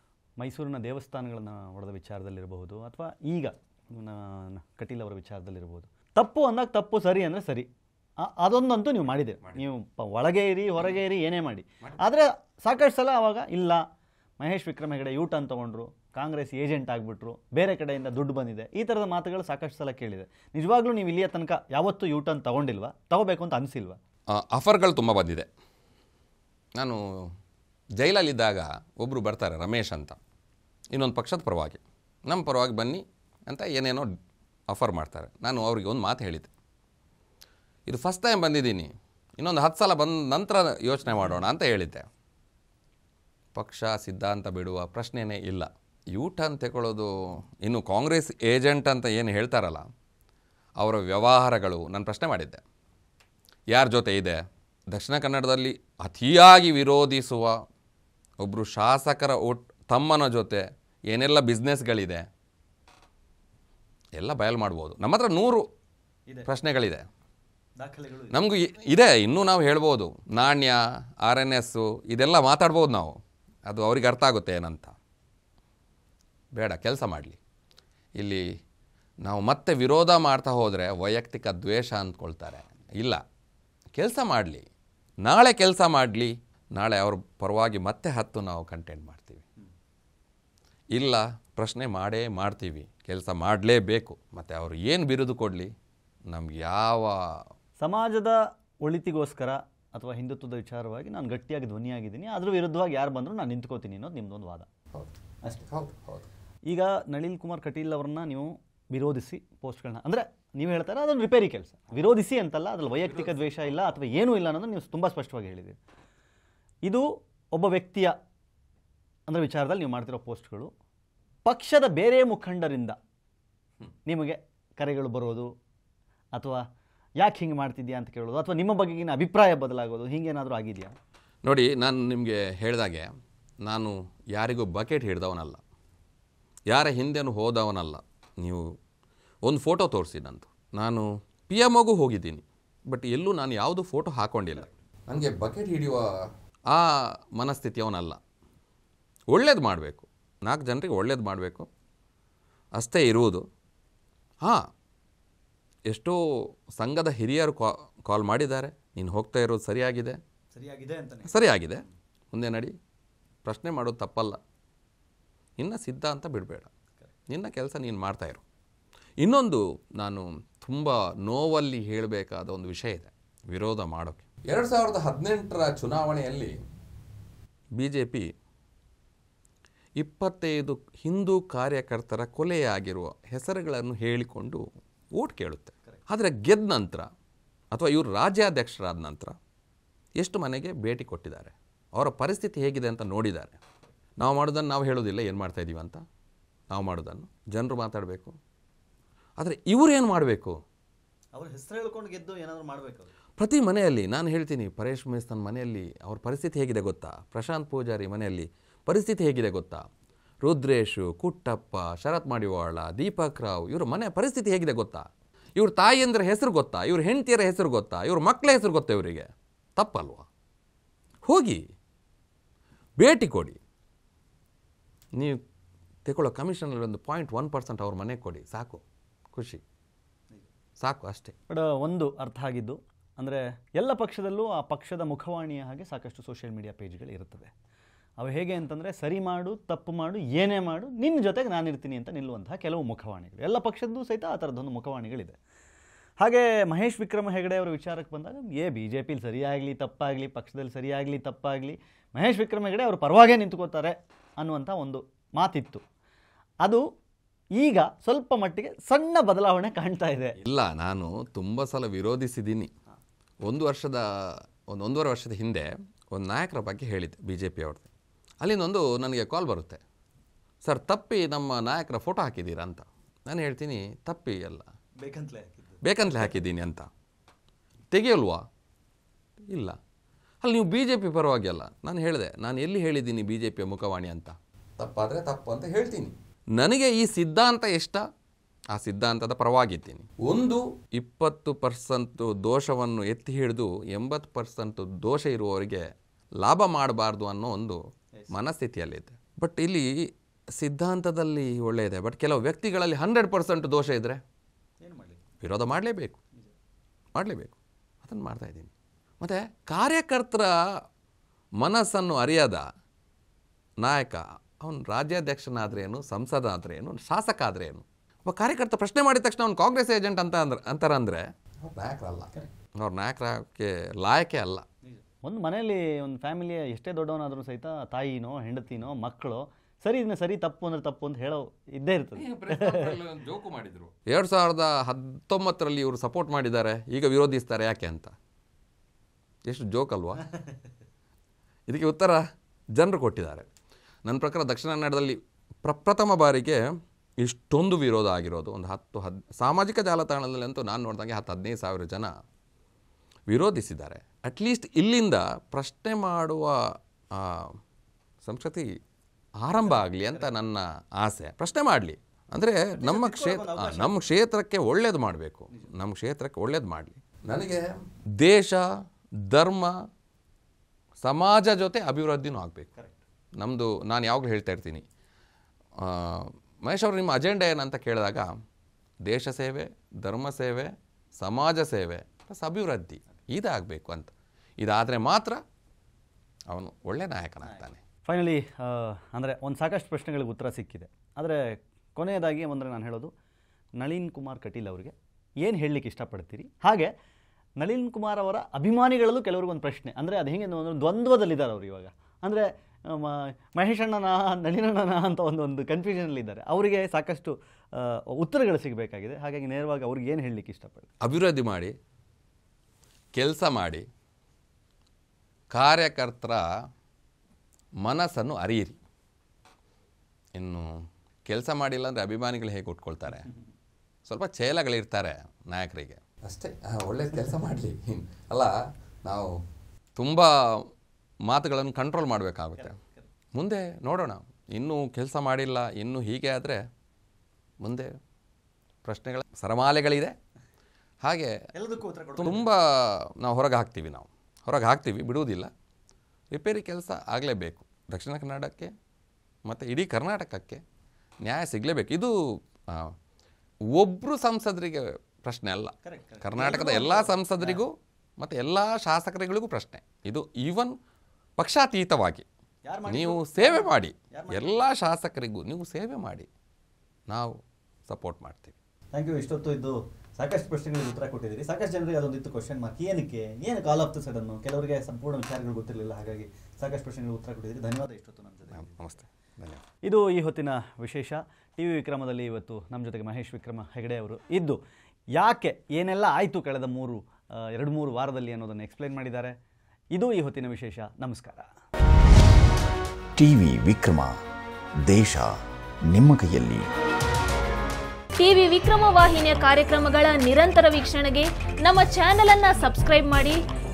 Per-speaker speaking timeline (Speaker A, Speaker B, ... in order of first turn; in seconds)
Speaker A: 0.4-7.7, 8.2-13.8, 14.4-24.0, 67.8-68.4, 97.8-104.7, 106.7-115.8, 116.8-118.2, 119.3-120.7, 121.5-123.0, 124.1-125.5, 126.3-126.6, 127.2-130.9, 160.6-161.5, 201.3-203.1, 231.5-237.5, 238.2-245.4, 246.2-255.8, 257.6-260.4, 275.0-275.8, 304.8-305.2, 324.9-332.9, 362.8-364.1, 387.5-393.1, 393.8-396.9, 397.6-410.9, 432.6-433.0, 441.5-442.5, 455.8-457.6, 462.7-464.7, 468.9-478.9, 479.8-484.6, 485.1-489.4, 489.9-491.5
Speaker B: 24.3-25.5, 26.8-27.0, 28.0-30.2, 30.9-34.1, 34.7-36.5, 37.9-42.1, 43.5-49.9, 50.8-52.6, 53.7-57.6, 58.4-62.3, 64.2-65.7, 66.5-67.1, 68.3-75.0, 76.5-77.4, 78.2-78.5, 79.2-83.2, 84.0-84.7, 85.2-89.5, 90.9-95.7, 96.3-97.4, 105.7-106.2, 113.1-113.3, 131.4-133.1, 133.6-135.6, 136.7-138.7, 139.4-146.1, 146.7-148.2, 149.3-151.7, 152.8-153.4, 155.9-160.2, 161.2-162.8, 163.4-164.4, 165.6-166.7, 167.3-168.4, 169.2-176.5, 177.8-178.3, 180.0-187.1, 187.7-189.4, 190.2-193.6, 194.2-196.0, 196.7-198.4, 199.4-200.6, 203.4-209.9, 210.4-220.3, 221.2-221.6, 223.0-223.6, 225.2-225.4, 226.1-229.6, 230.8-231.4, 260.4-262.7, 263.4-267.9, 268.4-269.8, 270.6-274.7, 275.8-276.9, 277.9-278.4, 279.5-279.8, 280.4-288.0, 288.7-299.9, 300.6-304.2, 305.4-306.2, 307.1-310.6, 311.6-312.6, 313.8-324.7, 332.2-338.1, 339.5-340.3, 341.7-343.5, 344.1-346.6, 347.2-352.1, 353.3-357.6, 358.2-358.8, 359.4-367.7, 368.2-368.7, 369.2-369.8, 371.0-372.7, 373.4-374.8, 375.8-378.3, 379.1-385.4, 386.5-387.8, 411.0-411.7, 413.1-413.9, 415.5-416.5, 417.8-418.8, 420.4-423.3, 424.1-429.4, 429.9-430.7, 431.3-432.8, 433.4-436.6, 437.6-437.9, 438.8-440.1, 441.0-441.4, 442.2-445.5, 446.3-448.7, 449.5-450.6, 451.2-452.1, 452.7-452.9, 453.7-460.8, 461.4-462.3, 462.9-466.3, 467.1-468.6, 478.5-479.6
Speaker C: 493.2-494.2, 494.9-496.7
Speaker D: 498.2-503.4